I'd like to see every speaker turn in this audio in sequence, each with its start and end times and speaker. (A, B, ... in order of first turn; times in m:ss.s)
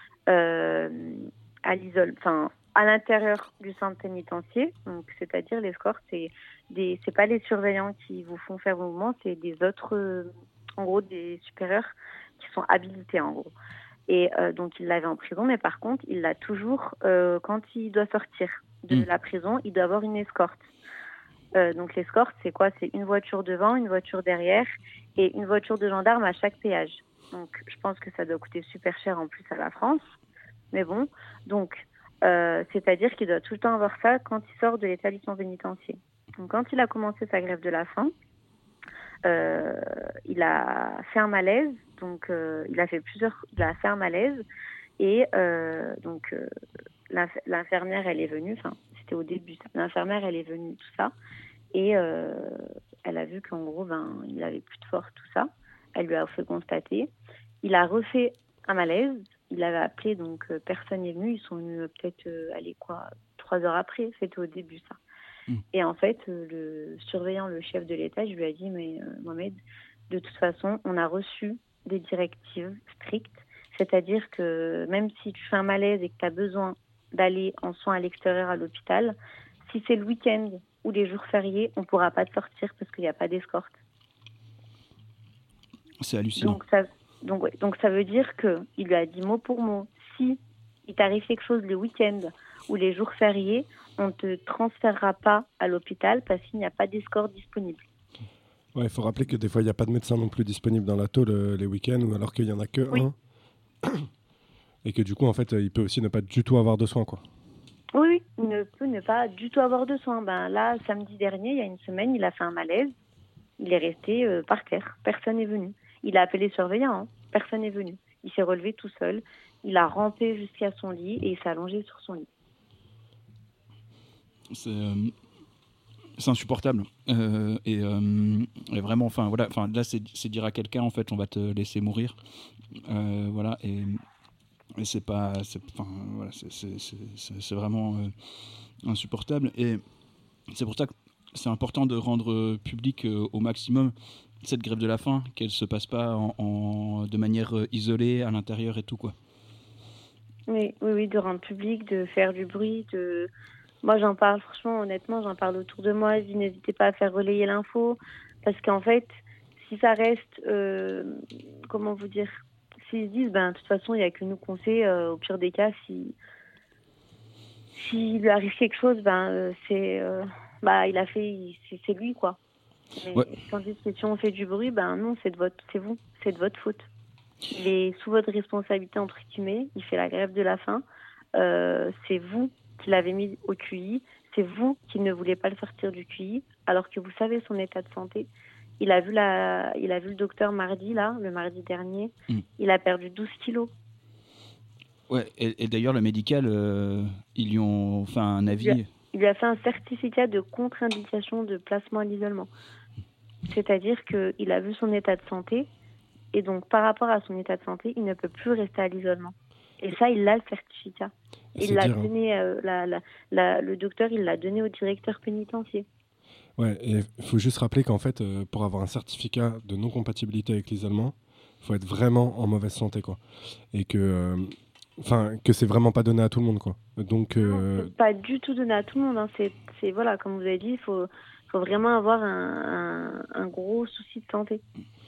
0:00.3-0:13.5 A
0:14.1-0:20.7 A
0:21.6-0:30.1 A
0:30.7-0:38.1 A
0:39.2-0:44.4 A
0:45.0-0:46.5 A
0:47.1-0:51.1 A
0:51.7-0:57.1 A
0:57.6-1:05.0 A
1:05.7-1:09.6 A
1:10.1-1:23.7 A
1:26.0-1:26.6 B
1:26.4-1:37.8 A
1:38.8-1:43.2 C
1:44.8-1:47.2 C
1:47.9-1:52.9 A
1:53.6-2:02.3 A
2:04.5-2:05.1 B
2:06.2-2:12.2 B
2:12.9-2:14.0 B
2:14.8-2:18.1 B
2:18.8-2:19.8 B
2:20.5-2:29.2 B
2:30.5-2:33.3 A
2:33.8-2:46.2 A
2:47.8-2:52.4 A
2:53.0-2:56.9 A
2:57.5-3:00.8 A
3:01.4-3:08.3 A
3:08.8-3:13.7 A
3:15.1-3:18.9 B
3:18.5-3:22.5 A
3:23.5-3:25.7 A
3:26.3-3:35.9 A
3:31.6-3:32.1 C
3:36.6-3:43.2 C
3:43.7-3:47.9 C
3:47.4-3:54.6 A